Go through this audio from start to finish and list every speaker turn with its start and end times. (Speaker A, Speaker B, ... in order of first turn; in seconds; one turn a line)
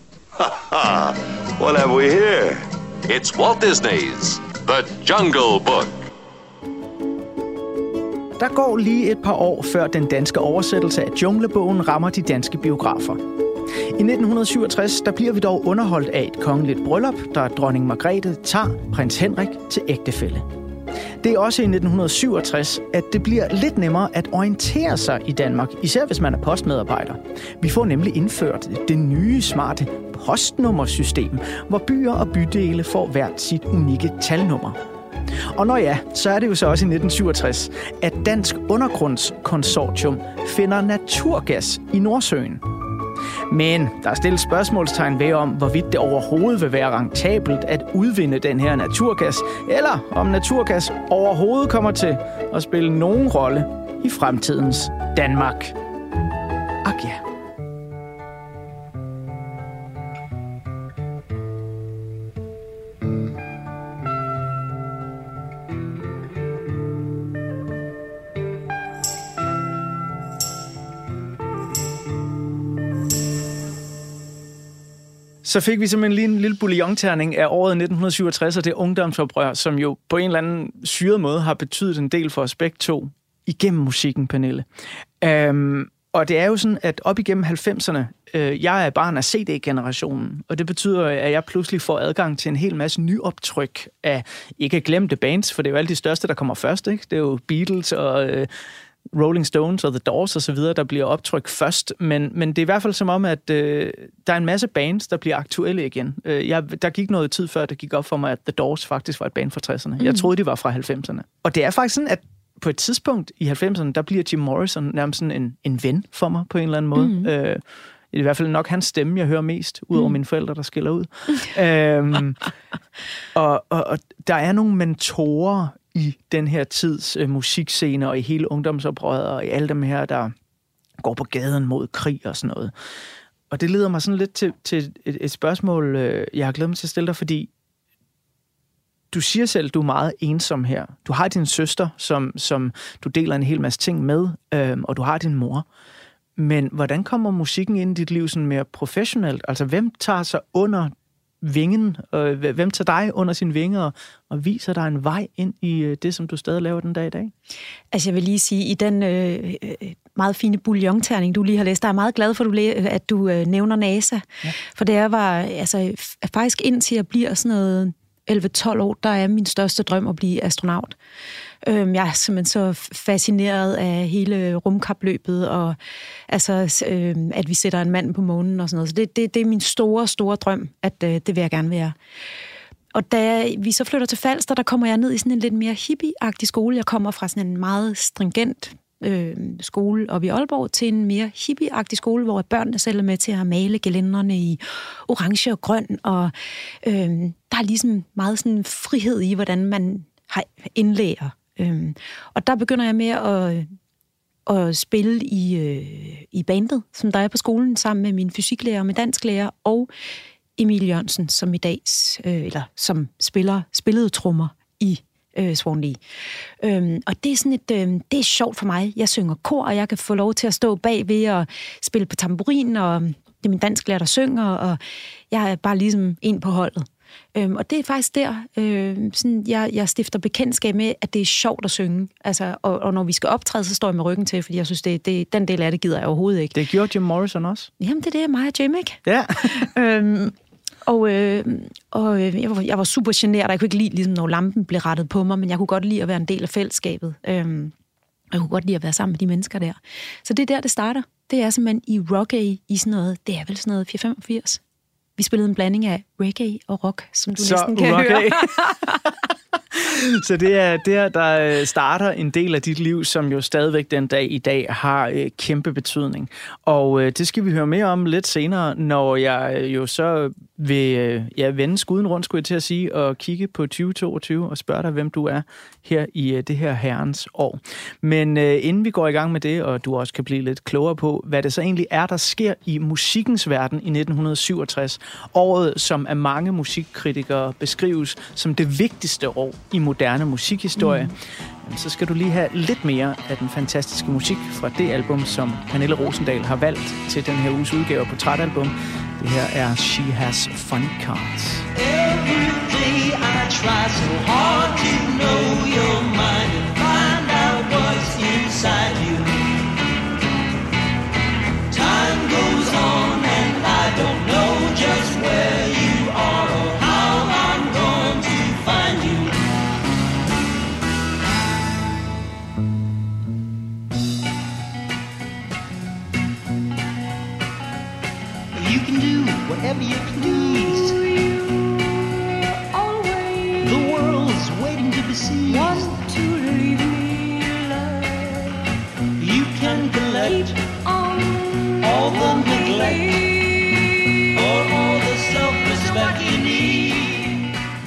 Speaker A: 0.4-6.1
Speaker B: 8.4-13.2
Speaker B: 13.9-20.4
Speaker B: 21.2-34.8
Speaker B: 35.5-42.6
Speaker B: 43.5-55.7
Speaker B: 56.8-57.2
Speaker B: 75.4-84.7
Speaker B: 85.2-98.5
Speaker B: 99.1-122.4
Speaker B: 123.3-130.3
Speaker B: 131.0-132.7
Speaker B: 133.5-137.5
Speaker B: 139.1-145.7
Speaker B: 146.4-157.3
Speaker C: 157.9-170.9
Speaker C: 171.6-175.8
Speaker C: 176.3-181.9
Speaker C: 182.9-203.7
Speaker C: 204.5-209.9
Speaker C: 210.6-216.0
Speaker C: 216.6-224.8
Speaker C: 225.3-236.6
Speaker B: 236.5-237.7
Speaker C: 237.8-240.3
Speaker B: 239.1-239.7
Speaker C: 240.8-247.7
Speaker C: 248.3-254.6
Speaker C: 255.2-258.8
Speaker B: 257.4-259.1
Speaker B: 259.7-301.6
Speaker C: 290.8-291.1
Speaker D: 301.7-309.5
Speaker D: 311.7-319.4
Speaker D: 328.5-331.0
Speaker E: 330.9-333.9
Speaker D: 333.6-335.9
Speaker E: 335.4-338.6
Speaker D: 339.2-340.6
Speaker E: 339.6-344.2
Speaker D: 341.8-343.5
Speaker D: 344.3-347.4
Speaker E: 345.8-346.9